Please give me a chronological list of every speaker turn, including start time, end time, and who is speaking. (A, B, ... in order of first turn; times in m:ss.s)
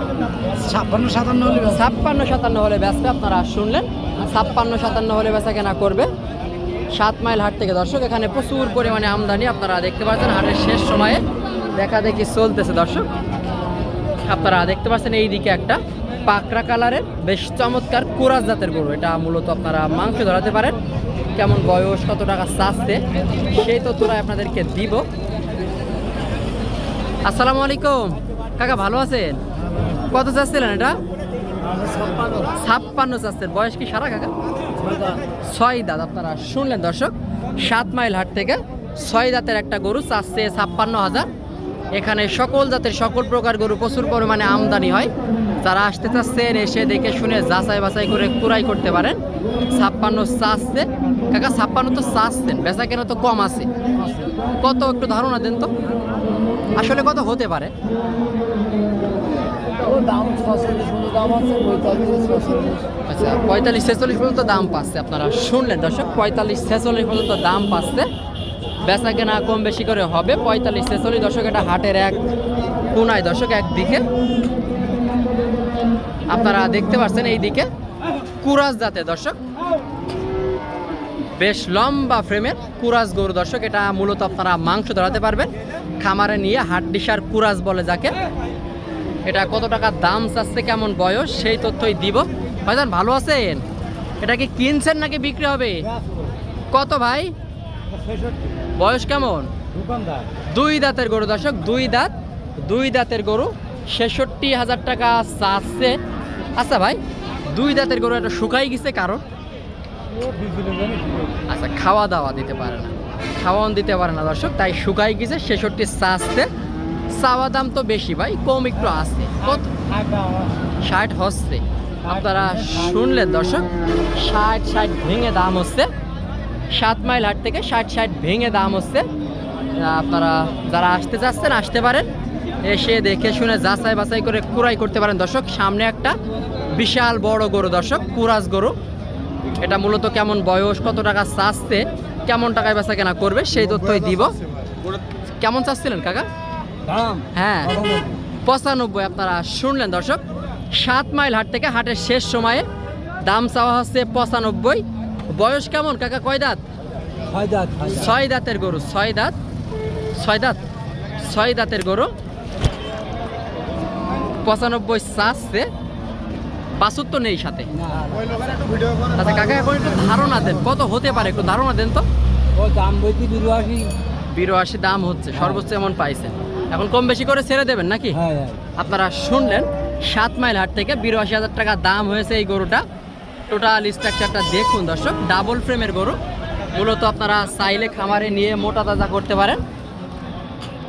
0:00.6-0:01.6 A
0:01.6-0:06.1 B
0:06.9-0:11.2 B
0:11.8-0:13.1 B
0:14.2-0:20.8 B
0:21.4-0:25.1 B
0:27.2-0:29.4 B
0:30.1-0:31.0 B
0:32.0-0:32.4 A
0:32.5-0:34.3 B
0:35.4-0:41.3 B
0:41.9-0:49.2 B
0:49.7-0:53.7 B
0:54.6-0:55.7 B
0:56.8-0:57.7 B
0:59.8-1:02.8 A
1:03.1-1:08.1 B
1:08.8-1:12.2 B
1:12.9-1:14.1 B
1:16.3-1:17.7 B
1:18.4-1:19.4 B
1:21.4-1:28.2 B
1:29.3-1:33.6 B
1:34.2-1:35.9 B
1:36.7-1:37.3 B
1:38.8-1:39.5 B
1:39.7-1:40.3 A
1:40.5-1:46.0 B
1:46.6-1:49.2 B
1:50.2-1:51.3 A
1:51.5-1:56.5 B
1:57.1-1:59.7 B
1:59.8-2:00.5 A
2:00.8-2:05.9 B
2:02.1-2:02.9 A
2:06.7-2:09.1 B
2:09.8-2:12.1 B
2:12.6-2:16.2 B
2:16.7-2:18.8 B
2:19.6-2:24.4 B
2:25.4-2:26.3 B
2:26.9-2:28.2 A
2:27.4-2:27.8 B
2:28.5-2:32.7 B
2:33.2-2:36.6 B
2:37.3-2:38.1 A
2:37.9-2:39.4 B
2:40.2-2:40.6 B
2:41.2-2:42.1 B
2:44.4-2:45.7 B
2:46.8-2:47.7 B
2:47.8-2:48.8 A
2:49.2-2:52.1 B
2:52.6-2:53.9 A
2:54.3-2:58.2 B
2:55.4-2:55.6 A
2:58.1-2:58.6 A
2:58.8-3:02.8 B
3:03.5-3:06.2 B
3:06.7-3:09.6 B